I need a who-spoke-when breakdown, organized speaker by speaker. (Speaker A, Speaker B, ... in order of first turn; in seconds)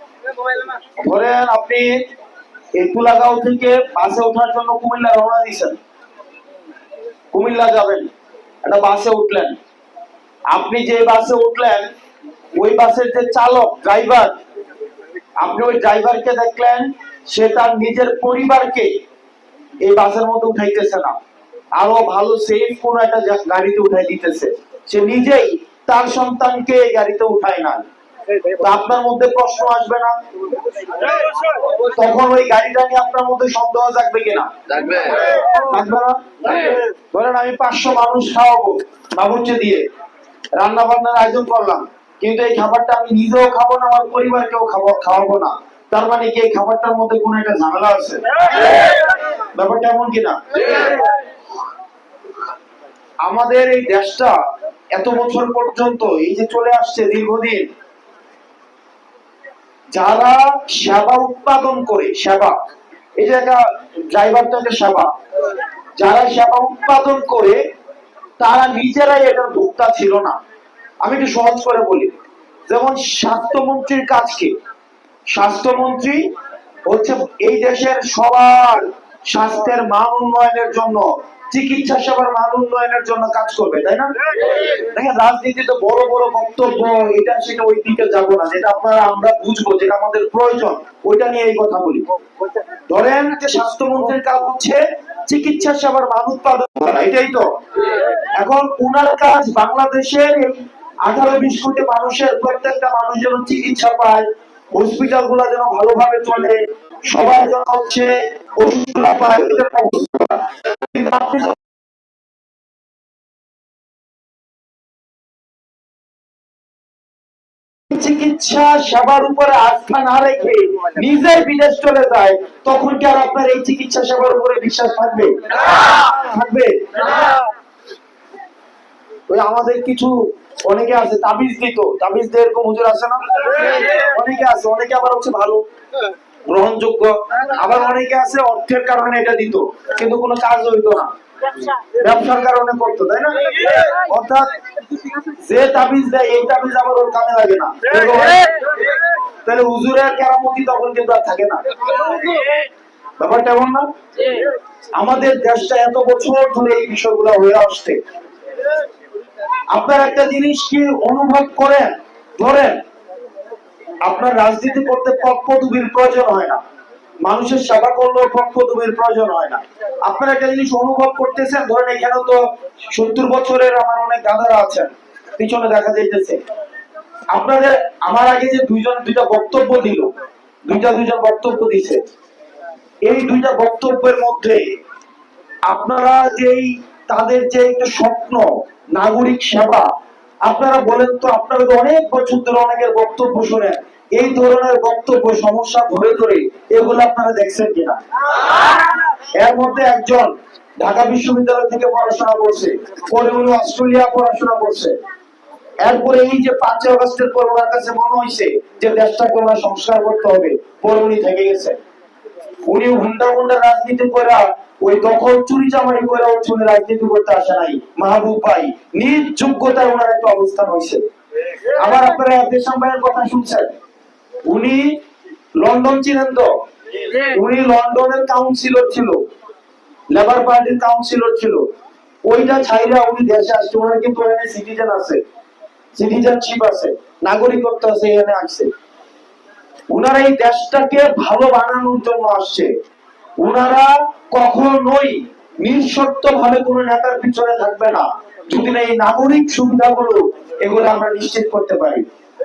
Speaker A: 1.0-2.0, 2.7-5.8, 7.3-8.1, 8.6-9.6, 10.5-11.9, 12.5-14.3, 15.4-18.9, 19.8-21.2, 21.8-27.8, 28.6-30.2, 31.9-39.8, 40.5-48.2, 49.5-51.0, 53.2-54.4, 54.9-57.7, 59.9-62.5, 63.2-65.1, 66.0-67.6, 68.4-70.4, 71.0-72.1, 72.7-74.5, 75.3-76.3, 76.8-92.1, 92.9-111.6, 117.9-127.3, 129.3-135.6, 136.5-144.6, 145.3-148.7, 149.4-152.1, 153.2-154.3, 155.0-158.0, 159.7-162.8, 164.0-166.6, 167.2-172.4, 172.9-176.4, 177.3-180.1, 180.7-182.0, 183.0-184.6, 185.7-189.9, 190.4-198.0, 199.3-204.9, 205.8-211.8, 212.7-221.0, 221.7-223.7, 224.4-225.0, 225.6-226.5, 227.1-229.2, 230.1-231.7, 232.2-235.2, 235.9-238.7, 239.9-242.7, 243.4-252.0